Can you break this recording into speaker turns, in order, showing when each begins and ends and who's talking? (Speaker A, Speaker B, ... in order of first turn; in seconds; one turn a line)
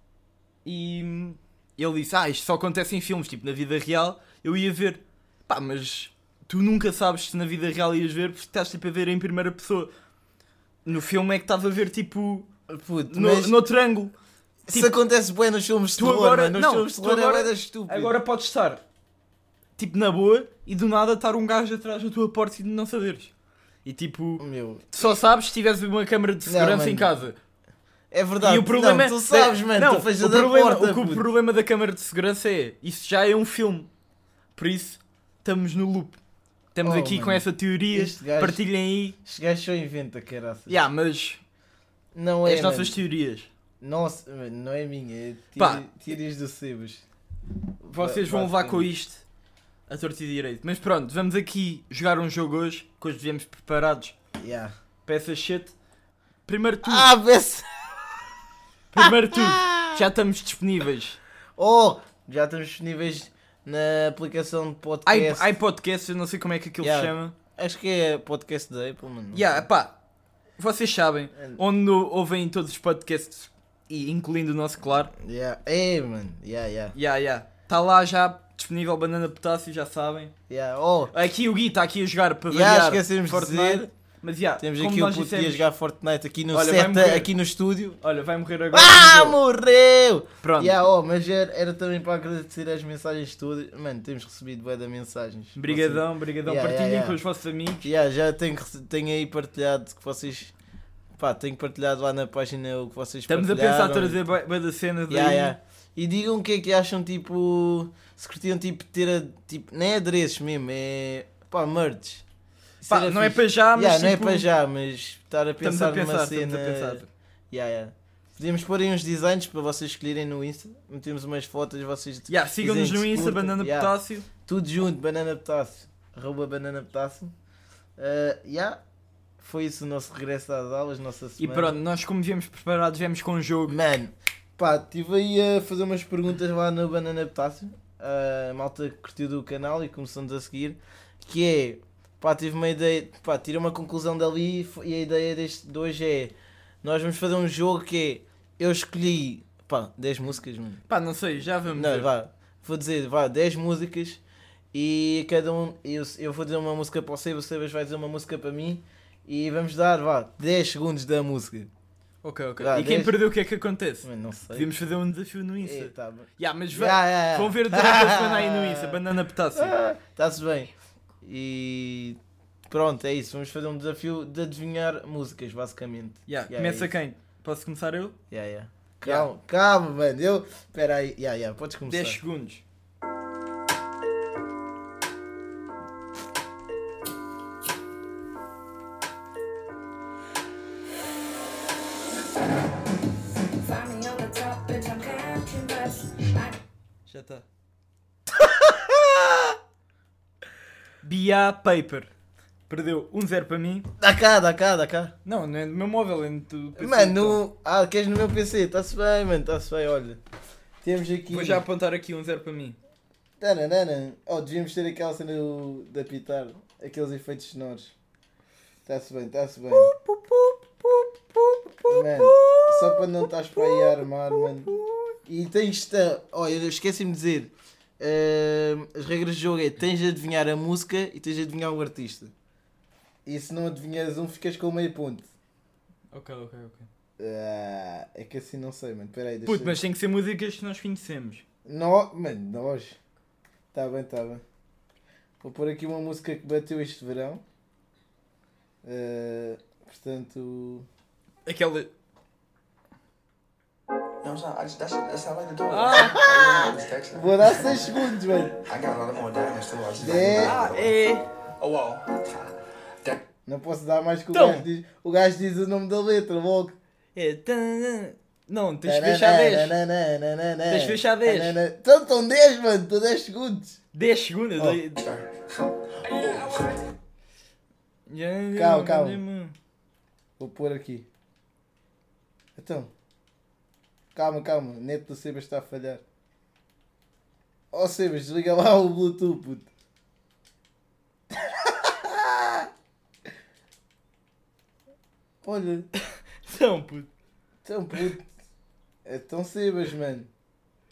Speaker A: 0.6-9.9
Speaker A: 10.8-12.5
Speaker B: 12.7-13.6
Speaker A: 13.1-14.1
Speaker B: 14.7-18.1
Speaker A: 16.0-18.8
Speaker A: 19.8-23.3
Speaker A: 23.8-27.4
Speaker B: 24.4-24.9
Speaker B: 26.4-27.1
Speaker B: 28.1-31.3
Speaker A: 28.4-33.9
Speaker A: 34.5-36.2
Speaker A: 36.7-39.2
Speaker B: 36.8-38.6
Speaker B: 39.2-40.8
Speaker A: 40.7-41.4
Speaker B: 42.1-43.0
Speaker A: 42.4-43.5
Speaker B: 43.8-47.0
Speaker A: 45.5-45.9
Speaker B: 47.8-48.9
Speaker A: 47.9-49.2
Speaker A: 49.9-54.1
Speaker B: 54.4-54.7
Speaker A: 55.0-55.7
Speaker A: 56.5-57.1
Speaker B: 56.8-57.7
Speaker A: 58.9-61.2
Speaker B: 59.0-60.0
Speaker B: 61.6-65.5
Speaker A: 65.0-67.3
Speaker B: 66.8-69.6
Speaker A: 69.3-70.0
Speaker A: 70.6-75.1
Speaker B: 71.3-71.6
Speaker B: 75.1-77.0
Speaker A: 76.9-80.3
Speaker B: 80.5-81.1
Speaker A: 81.1-85.7
Speaker B: 82.5-83.9
Speaker B: 84.6-88.0
Speaker A: 86.5-87.3
Speaker A: 88.0-89.4
Speaker B: 88.7-97.2
Speaker A: 90.4-90.8
Speaker A: 95.5-97.9
Speaker B: 97.8-100.5
Speaker B: 101.2-104.2
Speaker A: 103.3-105.5
Speaker B: 105.1-112.2
Speaker B: 112.8-127.3
Speaker A: 112.8-114.5
Speaker A: 115.6-117.1
Speaker A: 122.3-124.3
Speaker B: 128.0-128.8
Speaker B: 129.4-131.7
Speaker A: 131.4-133.8
Speaker B: 133.7-150.8
Speaker A: 150.9-152.1
Speaker B: 151.7-154.2
Speaker B: 154.7-161.7
Speaker A: 162.2-169.8
Speaker B: 162.6-163.2
Speaker B: 164.0-164.7
Speaker B: 165.6-169.0
Speaker B: 169.5-172.2
Speaker B: 172.7-176.9
Speaker A: 176.3-178.2
Speaker B: 178.3-182.2
Speaker A: 181.9-182.6
Speaker C: 193.6-196.6
Speaker A: 197.1-197.4
Speaker B: 198.3-199.5
Speaker A: 201.0-202.1
Speaker A: 202.7-203.9
Speaker B: 204.0-205.1
Speaker A: 205.2-207.4
Speaker B: 206.8-210.2
Speaker B: 210.8-211.6
Speaker A: 211.3-212.8
Speaker B: 213.4-217.9
Speaker B: 218.8-219.9
Speaker A: 219.7-225.2
Speaker B: 221.9-224.7
Speaker B: 225.2-232.3
Speaker B: 233.2-235.2
Speaker A: 236.1-236.9
Speaker B: 237.2-239.8
Speaker A: 239.4-241.4
Speaker B: 241.6-243.0
Speaker B: 243.7-244.4
Speaker B: 245.4-247.4
Speaker B: 248.8-250.9
Speaker A: 251.4-251.9
Speaker D: 254.2-258.0
Speaker A: 255.7-256.2
Speaker B: 256.0-258.6
Speaker D: 258.6-260.9
Speaker B: 260.0-260.6
Speaker A: 260.3-261.2
Speaker D: 261.6-262.5
Speaker B: 263.4-266.8
Speaker A: 264.3-264.6
Speaker A: 267.1-269.8
Speaker B: 268.8-273.8
Speaker A: 270.7-271.6
Speaker A: 273.9-275.0
Speaker D: 275.0-276.8
Speaker A: 278.1-279.6
Speaker B: 278.5-279.2
Speaker B: 280.4-281.1
Speaker B: 282.6-282.9
Speaker B: 284.1-286.0
Speaker B: 287.7-289.7
Speaker B: 291.3-292.7
Speaker B: 295.4-295.9
Speaker A: 296.4-297.1
Speaker B: 297.6-298.3
Speaker B: 299.0-300.3